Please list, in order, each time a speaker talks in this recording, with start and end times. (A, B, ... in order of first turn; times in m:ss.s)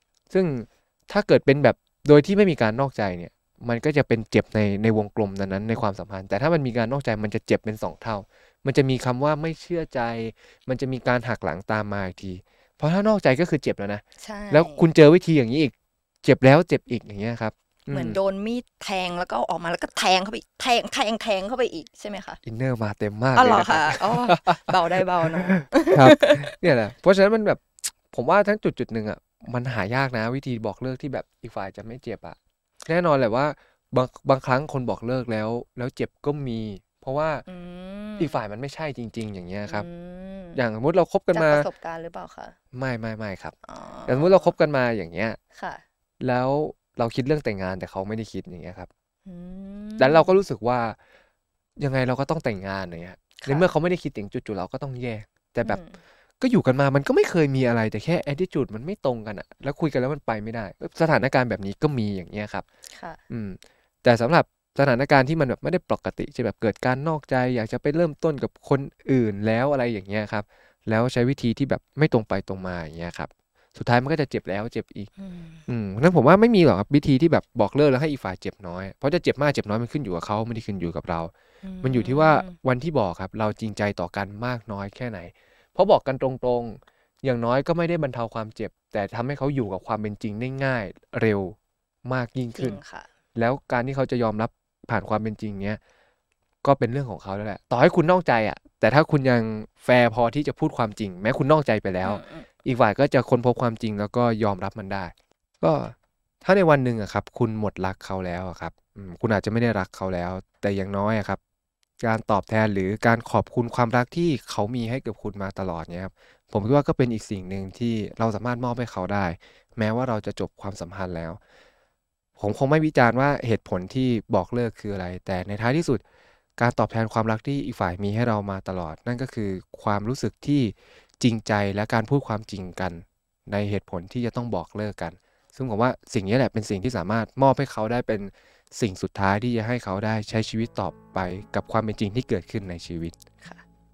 0:00.3-0:15.7 A
0:14.2-0:14.8 B
0:16.2-0:18.2 A
0:17.9-0:22.4 B
0:22.4-0:37.4 A
0:23.3-0:26.6 B
0:37.5-0:38.4 B
0:38.2-0:39.9 A
0:39.7-0:40.6 B
0:40.6-0:41.7 A
0:41.3-0:42.6 B
0:42.7-0:43.5 A
0:43.6-0:44.6 B
0:44.1-0:45.4 A
0:45.5-0:45.8 B
0:46.2-0:48.9 A
0:49.2-0:50.4 B
0:50.0-0:51.0 A
0:51.8-0:55.8 A
0:53.4-0:53.7 B
0:55.6-0:56.0 B
0:56.4-1:02.6 A
1:02.9-1:03.2 B
1:03.3-1:15.1 A
1:15.2-1:15.7 B
1:15.7-1:21.3 A
1:21.6-1:22.6 B
1:21.8-1:32.8 A
1:32.6-1:33.1 B
1:33.4-1:35.8 A
1:36.6-1:51.4 A
1:42.0-1:42.5 B
1:52.0-2:01.4 A
2:02.4-2:06.0 A
2:06.6-2:23.2 A